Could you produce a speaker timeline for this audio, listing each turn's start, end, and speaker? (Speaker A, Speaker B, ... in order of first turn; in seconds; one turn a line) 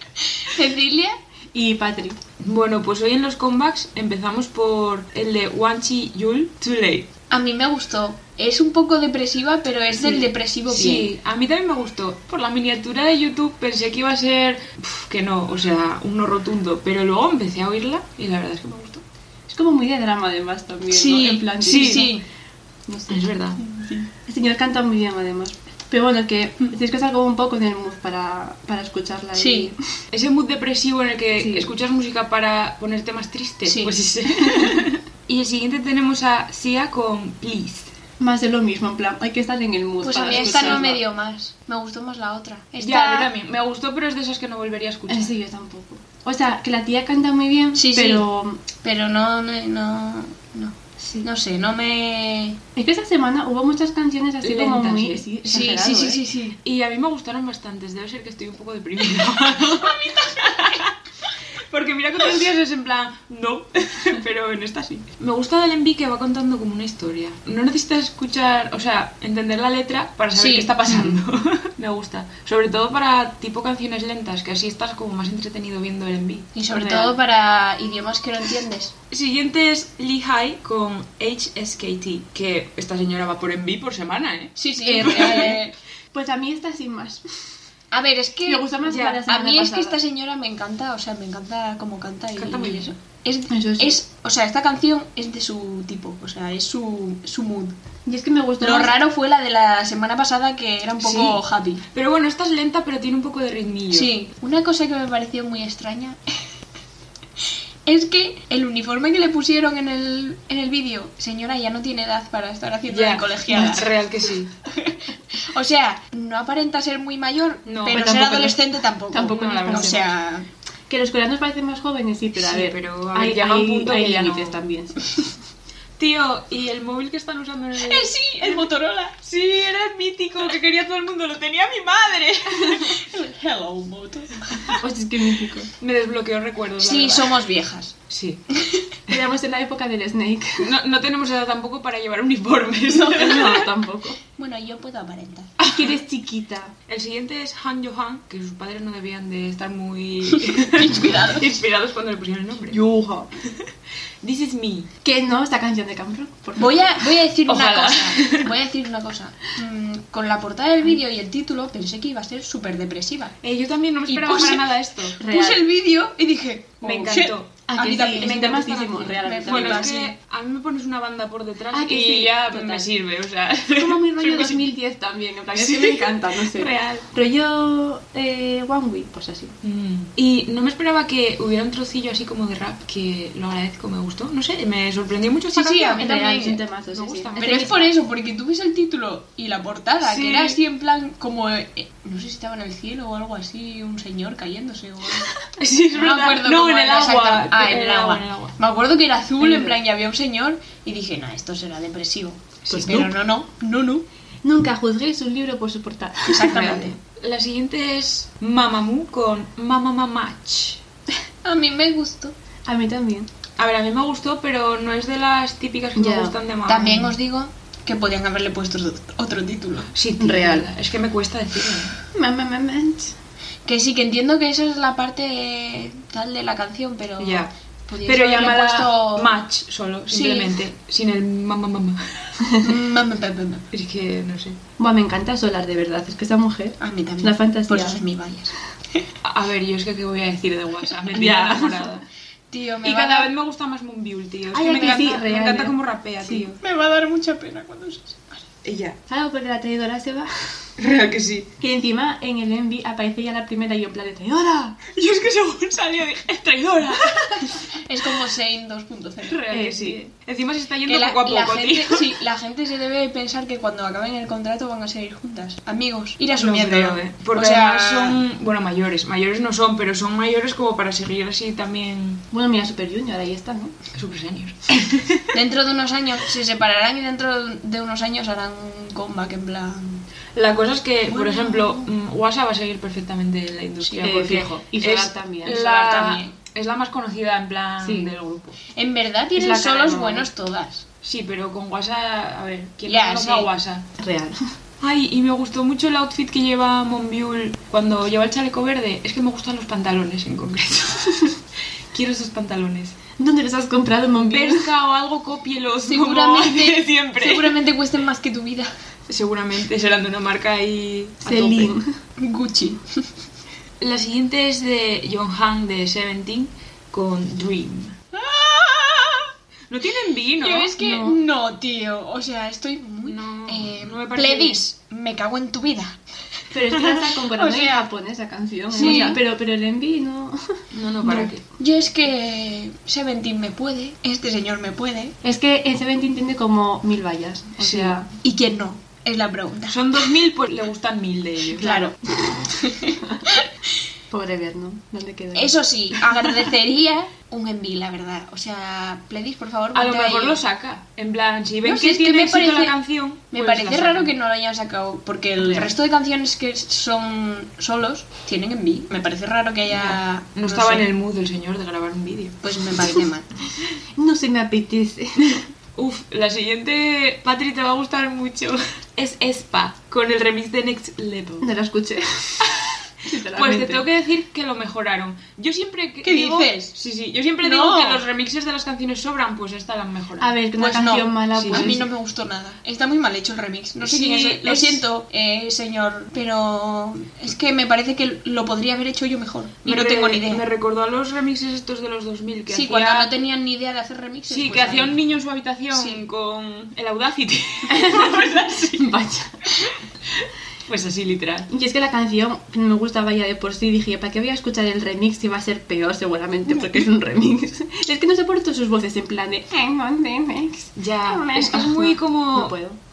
Speaker A: 0.3-1.1
Speaker B: 1.5-2.2
Speaker C: 2.4-7.1
Speaker A: 7.3-11.1
Speaker B: 10.0-10.2
Speaker C: 10.7-19.0
Speaker B: 19.5-22.1
Speaker A: 20.9-22.2
Speaker C: 21.6-22.1
Speaker B: 22.9-23.2
Speaker C: 23.1-23.6
Speaker A: 23.6-24.1
Speaker B: 24.3-29.8
Speaker A: 29.3-29.7
Speaker C: 30.1-37.9
Speaker B: 31.4-31.7
Speaker A: 33.6-34.0
Speaker B: 34.4-34.9
Speaker B: 38.2-41.0
Speaker A: 40.0-43.3
Speaker C: 40.2-40.9
Speaker C: 42.8-45.3
Speaker B: 45.1-48.6
Speaker A: 47.7-48.2
Speaker A: 48.8-52.6
Speaker B: 52.8-56.2
Speaker C: 54.4-60.9
Speaker A: 55.5-56.5
Speaker A: 59.7-60.8
Speaker C: 61.7-76.5
Speaker A: 70.3-71.2
Speaker B: 70.9-71.2
Speaker A: 76.5-78.9
Speaker B: 76.7-77.1
Speaker C: 79.1-85.5
Speaker A: 84.6-85.7
Speaker B: 84.8-87.2
Speaker A: 87.9-97.8
Speaker B: 88.5-90.0
Speaker C: 88.8-89.2
Speaker C: 92.4-92.9
Speaker B: 93.5-94.0
Speaker B: 98.0-98.9
Speaker A: 98.6-101.8
Speaker C: 101.0-101.4
Speaker C: 101.9-104.1
Speaker A: 103.9-106.2
Speaker A: 107.8-114.0
Speaker C: 112.9-114.5
Speaker A: 114.7-120.5
Speaker C: 117.7-118.5
Speaker B: 119.1-120.1
Speaker C: 119.2-120.1
Speaker B: 120.9-125.2
Speaker C: 122.4-124.6
Speaker C: 126.0-128.7
Speaker A: 127.8-129.2
Speaker C: 129.2-133.0
Speaker A: 132.9-134.4
Speaker B: 134.7-135.7
Speaker C: 135.8-137.4
Speaker A: 136.8-138.0
Speaker C: 138.1-138.4
Speaker A: 138.5-138.8
Speaker B: 139.1-140.7
Speaker C: 140.6-143.7
Speaker A: 142.9-143.5
Speaker B: 143.0-144.2
Speaker A: 144.3-145.5
Speaker C: 145.6-145.9
Speaker B: 145.6-146.7
Speaker C: 146.9-152.8
Speaker A: 150.5-151.5
Speaker B: 152.7-153.3
Speaker C: 154.2-154.9
Speaker B: 155.0-156.8
Speaker A: 156.6-163.3
Speaker C: 157.5-158.5
Speaker C: 163.4-165.2
Speaker A: 164.1-170.1
Speaker B: 165.2-165.6
Speaker C: 166.8-167.6
Speaker B: 167.7-169.9
Speaker C: 168.1-174.6
Speaker B: 171.7-172.4
Speaker A: 172.5-172.9
Speaker B: 173.7-179.6
Speaker C: 175.5-177.1
Speaker C: 179.6-186.1
Speaker A: 185.5-186.6
Speaker B: 186.0-187.7
Speaker C: 186.9-187.9
Speaker A: 187.4-195.3
Speaker C: 190.0-190.6
Speaker C: 195.6-198.6
Speaker A: 195.9-204.1
Speaker B: 199.4-199.7
Speaker C: 202.6-203.1
Speaker B: 202.7-203.0
Speaker B: 204.4-206.8
Speaker A: 206.3-207.0
Speaker C: 206.5-210.8
Speaker A: 211.4-212.3
Speaker B: 212.7-213.3
Speaker C: 213.6-217.1
Speaker B: 216.0-216.3
Speaker A: 216.7-219.9
Speaker C: 219.9-222.0
Speaker B: 220.2-220.7
Speaker B: 222.1-223.1
Speaker A: 223.6-229.4
Speaker C: 227.2-227.5
Speaker C: 228.0-232.4
Speaker A: 230.1-230.6
Speaker A: 232.6-233.6
Speaker C: 233.7-234.6
Speaker B: 234.8-238.0
Speaker A: 236.8-239.1
Speaker C: 239.2-242.0
Speaker B: 241.1-242.0
Speaker A: 242.5-243.3
Speaker C: 242.8-246.6
Speaker B: 244.5-246.5
Speaker A: 244.7-245.1
Speaker A: 246.3-248.4
Speaker C: 248.6-249.0
Speaker B: 249.1-250.7
Speaker C: 250.8-251.5
Speaker B: 251.6-254.8
Speaker C: 254.9-257.6
Speaker A: 257.8-259.4
Speaker C: 259.2-262.1
Speaker B: 259.5-260.1
Speaker A: 260.9-268.2
Speaker C: 266.4-272.2
Speaker B: 272.3-273.7
Speaker C: 273.9-275.3
Speaker A: 275.3-280.0
Speaker C: 280.3-288.6
Speaker A: 281.1-281.9
Speaker A: 283.8-284.1
Speaker B: 284.0-285.6
Speaker A: 285.4-286.3
Speaker B: 287.8-288.2
Speaker A: 288.7-290.9
Speaker B: 289.4-290.3
Speaker C: 291.0-293.9
Speaker A: 292.9-293.5
Speaker B: 294.0-294.4
Speaker C: 294.8-301.4
Speaker C: 301.9-302.9
Speaker B: 303.2-304.7
Speaker C: 304.2-307.6
Speaker A: 305.9-308.7
Speaker C: 309.1-311.7
Speaker B: 311.2-311.9
Speaker A: 312.2-313.1
Speaker C: 313.8-318.0
Speaker A: 318.1-319.3
Speaker C: 319.7-320.7
Speaker A: 320.4-326.0
Speaker B: 320.8-321.2
Speaker C: 323.0-324.6
Speaker B: 326.5-330.5
Speaker A: 326.7-327.9
Speaker A: 328.7-329.2
Speaker C: 328.7-329.1
Speaker C: 330.7-331.4
Speaker A: 331.1-335.1
Speaker B: 335.2-338.1
Speaker C: 337.6-338.0
Speaker A: 338.2-340.1
Speaker C: 339.7-341.8
Speaker A: 341.5-342.0
Speaker B: 341.6-342.4
Speaker A: 342.5-343.5
Speaker B: 344.1-345.6
Speaker A: 345.3-350.4
Speaker C: 349.7-354.1
Speaker A: 351.6-352.8
Speaker A: 353.3-360.9
Speaker C: 355.4-355.7
Speaker C: 359.7-362.4
Speaker A: 362.4-363.3
Speaker B: 364.0-365.4
Speaker C: 365.8-371.5
Speaker B: 371.4-373.9
Speaker C: 372.4-372.7
Speaker C: 373.3-380.3
Speaker A: 376.0-376.7
Speaker A: 377.4-378.0
Speaker B: 380.2-381.8
Speaker A: 380.6-390.5
Speaker C: 381.4-381.8
Speaker C: 383.8-384.8
Speaker C: 389.6-393.1
Speaker A: 392.5-395.0
Speaker C: 394.3-398.9
Speaker A: 395.7-396.0
Speaker B: 397.7-399.5
Speaker C: 399.6-401.5
Speaker B: 401.5-412.8
Speaker C: 410.8-412.6